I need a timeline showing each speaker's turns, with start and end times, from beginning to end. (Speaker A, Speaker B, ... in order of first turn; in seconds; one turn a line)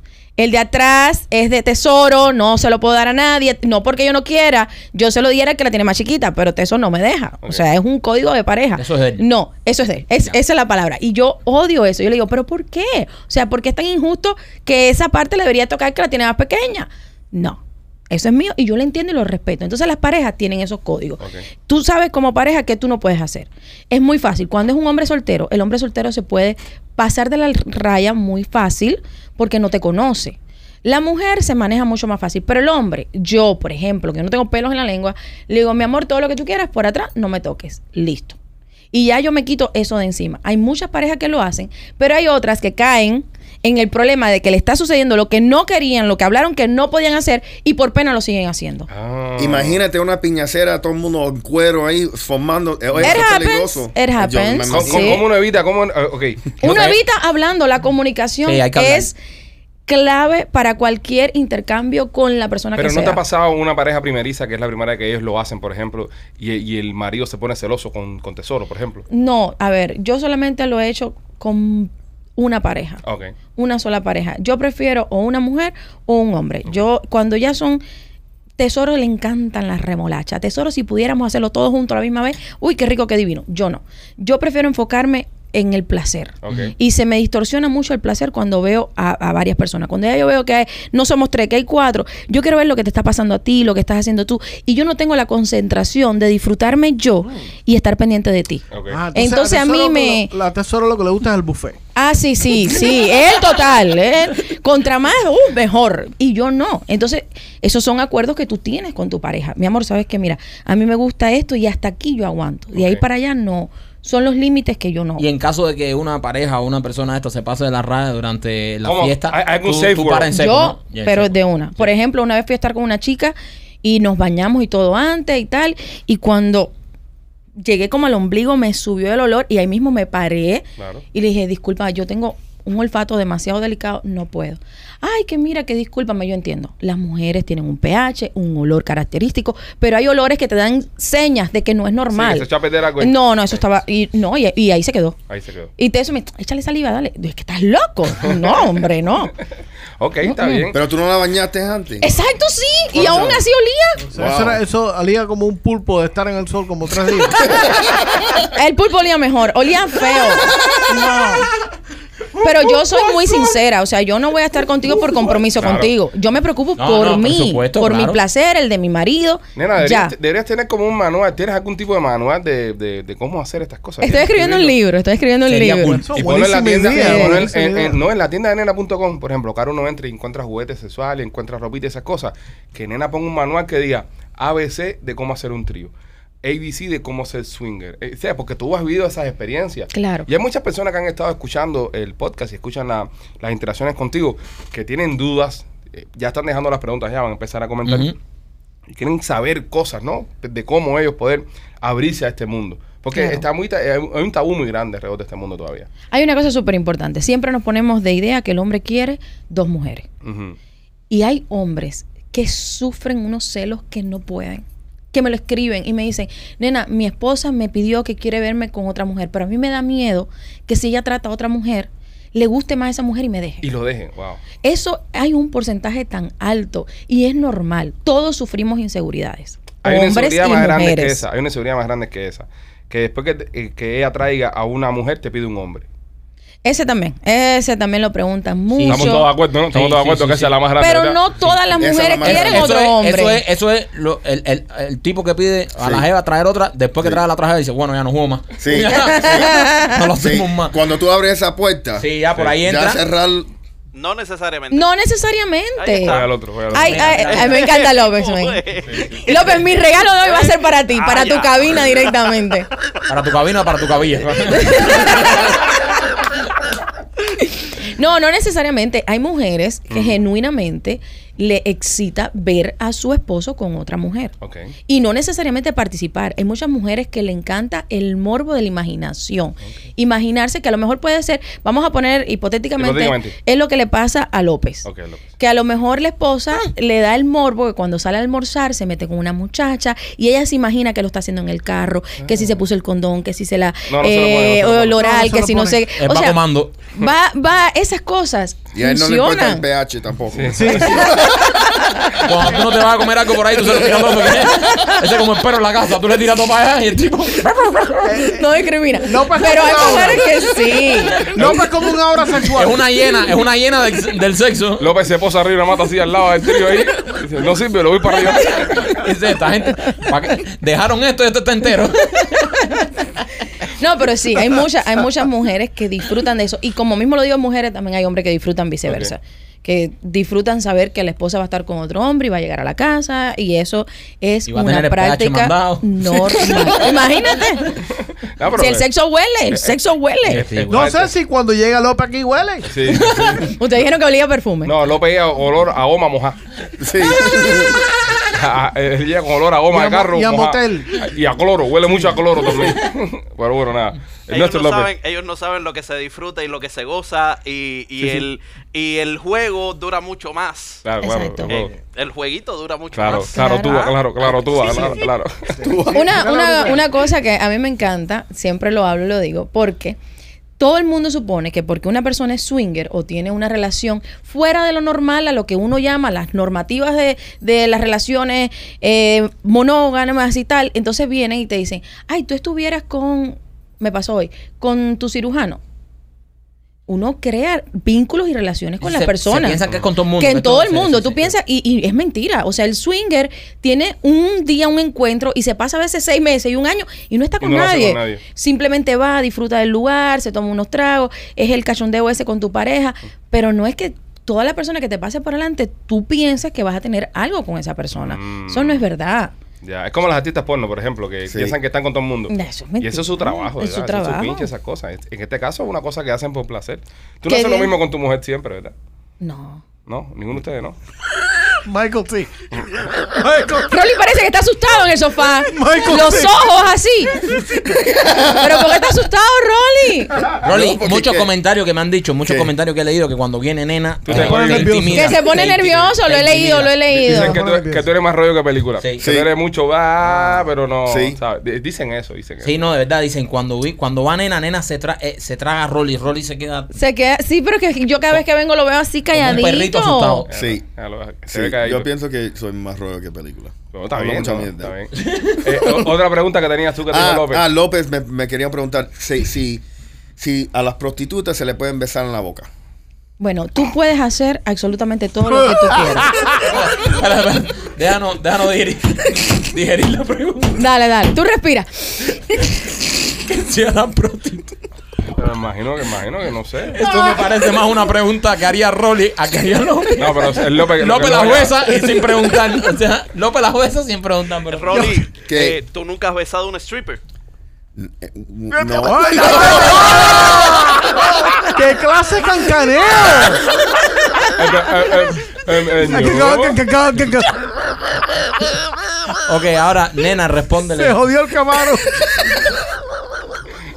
Speaker A: 0.4-38.4
Speaker B: 8.8-9.2
Speaker C: 21.2-21.4
Speaker A: 38.9-48.9
Speaker C: 48.9-49.8
Speaker D: 49.4-55.2
Speaker A: 53.0-55.2
Speaker C: 54.7-57.0
Speaker A: 56.6-59.1
Speaker B: 58.5-59.1
Speaker A: 59.9-63.2
Speaker C: 62.8-69.0
Speaker A: 69.1-73.0
Speaker C: 73.0-73.3
Speaker A: 73.5-77.8
Speaker A: 78.6-100.3
Speaker C: 86.4-86.7
Speaker C: 98.7-99.0
Speaker E: 98.9-101.8
Speaker A: 102.0-115.2
Speaker C: 112.7-113.0
Speaker B: 115.2-121.9
Speaker C: 118.8-120.3
Speaker A: 120.3-126.7
Speaker A: 127.6-142.5
Speaker C: 130.8-131.0
Speaker C: 142.1-143.6
Speaker A: 143.0-145.2
Speaker C: 145.3-145.7
Speaker A: 145.8-149.3
Speaker C: 150.0-150.8
Speaker A: 150.2-150.7
Speaker D: 150.7-152.1
Speaker A: 152.0-154.0
Speaker D: 152.9-153.4
Speaker E: 154.1-157.4
Speaker D: 154.1-154.6
Speaker A: 158.4-161.5
Speaker A: 162.4-170.1
Speaker C: 165.5-165.9
Speaker B: 166.8-168.2
Speaker C: 169.6-174.7
Speaker A: 174.0-176.1
Speaker B: 175.4-176.3
Speaker E: 176.0-178.0
Speaker C: 176.2-185.9
Speaker A: 176.8-177.5
Speaker C: 186.4-198.2
Speaker A: 189.9-190.3
Speaker B: 197.8-198.1
Speaker C: 198.9-205.9
Speaker A: 203.1-203.4
Speaker A: 206.1-210.1
Speaker C: 210.2-210.6
Speaker A: 211.1-223.7
Speaker C: 223.6-224.4
Speaker A: 224.6-231.2
Speaker C: 229.8-235.9
Speaker A: 236.6-239.3
Speaker B: 238.7-240.6
Speaker C: 238.9-241.2
Speaker A: 240.8-243.4
Speaker D: 241.8-242.7
Speaker B: 242.2-250.8
Speaker D: 245.8-246.1
Speaker D: 248.6-253.5
Speaker A: 248.8-250.0
Speaker B: 252.0-253.0
Speaker F: 253.9-254.9
Speaker A: 254.7-262.7
Speaker F: 255.8-256.3
Speaker C: 256.1-257.1
Speaker B: 256.7-257.7
Speaker F: 257.1-259.7
Speaker C: 258.9-259.2
Speaker F: 260.2-262.2
Speaker B: 263.1-265.5
Speaker A: 264.5-265.6
Speaker A: 267.4-274.3
Speaker C: 269.9-270.2
Speaker C: 274.4-274.7
Speaker A: 274.9-284.9
Speaker C: 282.8-283.3
Speaker C: 284.8-285.2
Speaker A: 285.4-296.4
Speaker C: 292.2-292.6
Speaker C: 293.9-295.0
Speaker E: 294.9-295.9
Speaker B: 296.0-296.7
Speaker A: 296.9-299.6
Speaker D: 298.7-301.4
Speaker C: 300.3-301.1
Speaker E: 300.5-301.1
Speaker B: 302.2-308.2
Speaker E: 308.0-308.4
Speaker A: 308.2-311.2
Speaker E: 309.0-310.3
Speaker E: 311.3-312.8
Speaker C: 311.4-311.6
Speaker B: 312.5-314.9
Speaker C: 314.8-319.0
Speaker B: 318.6-322.8
Speaker A: 323.6-337.8
Speaker C: 328.9-329.1
Speaker B: 334.5-336.8
Speaker C: 338.3-338.8
Speaker A: 338.6-340.4
Speaker B: 340.3-340.9
Speaker C: 340.3-341.1
Speaker E: 340.7-342.7
Speaker C: 342.6-343.6
Speaker A: 343.4-344.7
Speaker C: 344.6-346.4
Speaker D: 346.8-347.9
Speaker C: 348.2-354.9
Speaker E: 349.7-351.1
Speaker F: 354.3-360.8
Speaker C: 360.8-361.7
Speaker A: 361.0-361.5
Speaker F: 361.4-363.4
Speaker C: 362.9-365.6
Speaker A: 363.3-364.0
Speaker F: 364.4-365.0
Speaker E: 365.6-367.0
Speaker D: 365.6-366.2
Speaker A: 365.9-370.0
Speaker A: 370.6-385.6
Speaker A: 386.9-389.6
Speaker B: 388.8-391.3
Speaker A: 390.2-409.3
Speaker C: 397.4-398.2
Speaker C: 407.9-408.8
Speaker C: 409.6-418.7
Speaker D: 411.3-411.6
Speaker A: 412.3-414.5
Speaker A: 417.3-417.7
Speaker A: 419.2-419.6
Speaker C: 419.9-420.8
Speaker E: 421.6-422.4
Speaker E: 423.0-423.7
Speaker A: 423.7-427.2
Speaker E: 425.5-426.4
Speaker D: 427.6-428.7
Speaker A: 428.3-430.2
Speaker D: 430.4-431.3
Speaker B: 430.4-436.8
Speaker D: 432.2-432.5
Speaker C: 434.1-434.8
Speaker E: 434.1-435.2
Speaker A: 434.9-437.4
Speaker C: 436.9-442.5
Speaker E: 437.0-437.8
Speaker B: 438.8-439.0
Speaker D: 439.0-439.3
Speaker D: 440.0-441.2
Speaker B: 442.4-446.7
Speaker A: 446.7-450.2
Speaker B: 449.1-450.3
Speaker C: 450.3-451.9
Speaker D: 450.3-450.6
Speaker D: 451.3-454.7
Speaker C: 453.7-457.4
Speaker B: 455.0-455.4
Speaker D: 456.9-459.6
Speaker D: 460.2-462.5
Speaker A: 463.2-466.1
Speaker B: 466.3-470.6
Speaker A: 470.6-471.9
Speaker B: 472.4-474.5
Speaker C: 475.2-476.8
Speaker B: 476.7-484.8
Speaker C: 480.0-481.7
Speaker F: 484.5-487.0
Speaker E: 484.7-485.0
Speaker D: 485.2-485.6
Speaker D: 487.8-490.4
Speaker E: 488.5-493.5
Speaker C: 494.4-496.6
Speaker E: 495.8-497.4
Speaker B: 499.2-501.0
Speaker E: 500.7-502.0